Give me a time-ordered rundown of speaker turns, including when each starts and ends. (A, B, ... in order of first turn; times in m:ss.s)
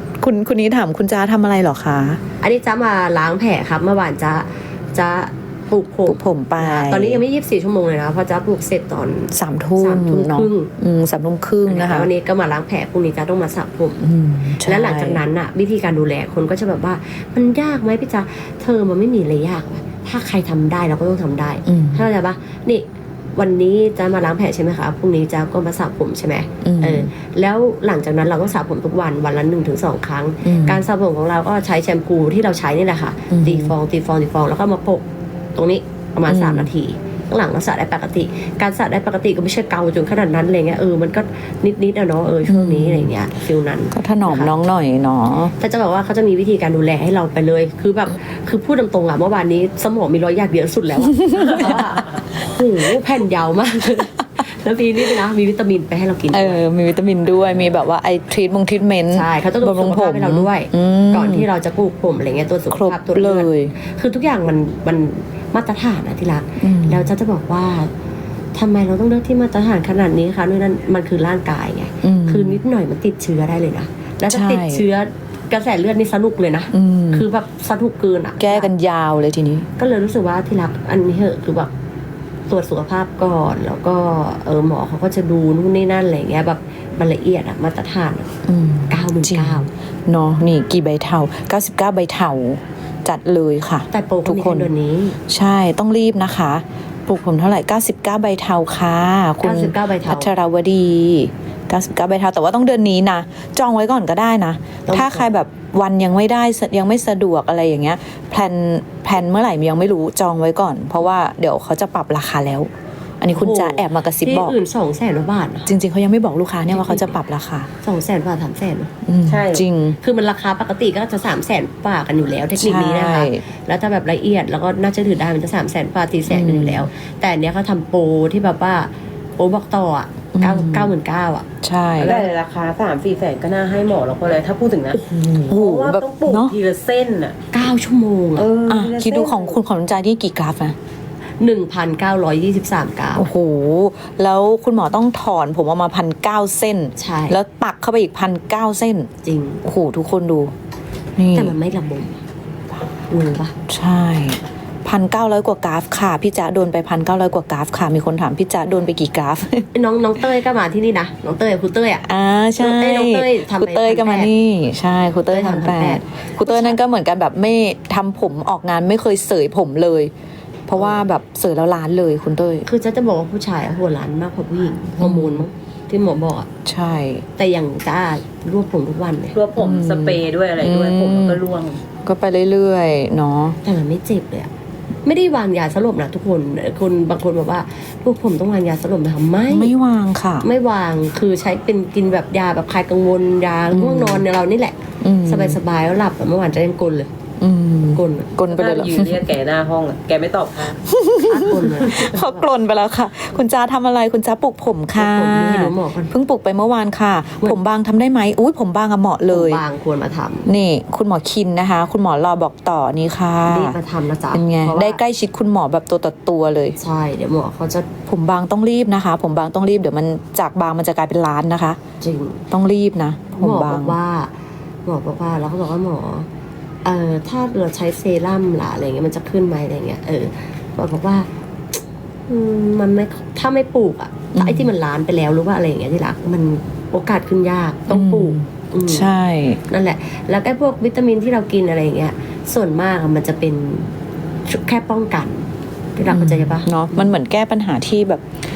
0:00.2-0:02.2 A
0:02.4-0:10.7 B
0:06.1-0:07.2 A
0:09.3-0:12.1 A
0:11.7-0:14.0 B
0:14.0-0:15.2 A
0:14.6-0:44.6 B
0:21.7-0:22.0 A
0:26.6-0:27.1 A
0:30.4-0:30.8 A
0:33.3-0:33.7 A
0:36.3-0:36.7 A
0:42.4-0:43.1 A
0:43.9-0:45.5 A
0:45.6-0:56.6 B
0:51.1-0:51.9 A
0:56.3-1:01.5 A
0:59.1-1:07.9 B
1:02.7-1:03.7 A
1:06.6-1:07.1 A
1:08.5-1:18.7 B
1:12.0-1:12.6 A
1:14.3-1:14.8 A
1:16.7-1:17.3 A
1:18.4-1:19.7 A
1:19.8-1:21.7 B
1:22.5-1:28.3 B
1:28.5-1:34.7 A
1:28.9-1:29.7 B
1:33.9-1:35.2 B
1:35.3-1:52.7 A
1:39.4-1:40.3 B
1:44.9-1:45.3 B
1:53.2-1:54.6 A
1:53.3-1:55.7 B
1:55.7-1:57.7 A
1:56.7-1:57.2 B
1:57.8-1:58.9 B
1:59.1-2:00.0 A
1:59.3-1:59.6 C
2:00.0-2:11.5 B
2:02.6-2:03.4 A
2:06.3-2:06.9 A
2:10.4-2:10.9 A
2:11.6-2:12.2 A
2:12.0-2:12.3 B
2:12.0-2:17.4 C
2:15.0-2:15.5 B
2:15.1-2:16.6 A
2:17.5-2:18.5 B
2:18.4-2:19.6 C
2:18.7-2:20.8 A
2:21.4-2:23.3 B
2:23.2-2:29.1 A
2:27.0-2:27.4 B
2:29.2-2:29.6 B
2:29.6-2:30.5 A
2:31.2-2:31.6 A
2:31.4-2:32.2 B
2:33.1-2:33.6 B
2:33.7-2:39.7 A
2:39.7-2:42.1 B
2:42.1-2:50.1 A
2:42.6-2:44.3 B
2:45.3-2:46.8 B
2:50.7-2:52.7 A
2:50.8-2:51.0 B
2:52.7-2:56.5 B
2:55.0-2:55.5 A
2:56.6-2:57.2 A
2:57.4-2:59.4 B
2:59.3-3:01.8 C
2:59.6-3:01.4 A
3:02.0-3:03.6 A
3:03.6-3:04.5 B
3:05.0-3:09.7 B
3:09.5-3:10.5 A
3:10.4-3:17.1 B
3:13.7-3:14.2 A
3:15.0-3:15.6 A
3:17.4-3:19.3 A
3:18.0-3:18.4 B
3:18.5-3:20.8 C
3:20.9-3:29.6 A
3:21.2-3:22.5 B
3:25.0-3:26.1 B
3:29.3-3:30.5 B
3:30.5-3:33.8 A
3:33.5-3:35.0 B
3:34.3-3:36.8 A
3:36.8-3:37.9 B
3:38.1-3:41.8 A
3:42.0-3:42.4 B
3:42.5-3:44.0 A
3:43.4-3:44.3 B
3:44.9-3:46.3 B
3:46.8-3:59.1 B
3:54.4-3:54.7 A
3:57.9-3:59.6 A
3:59.7-4:03.9 B
4:04.5-4:07.1 B
4:06.1-4:08.2 A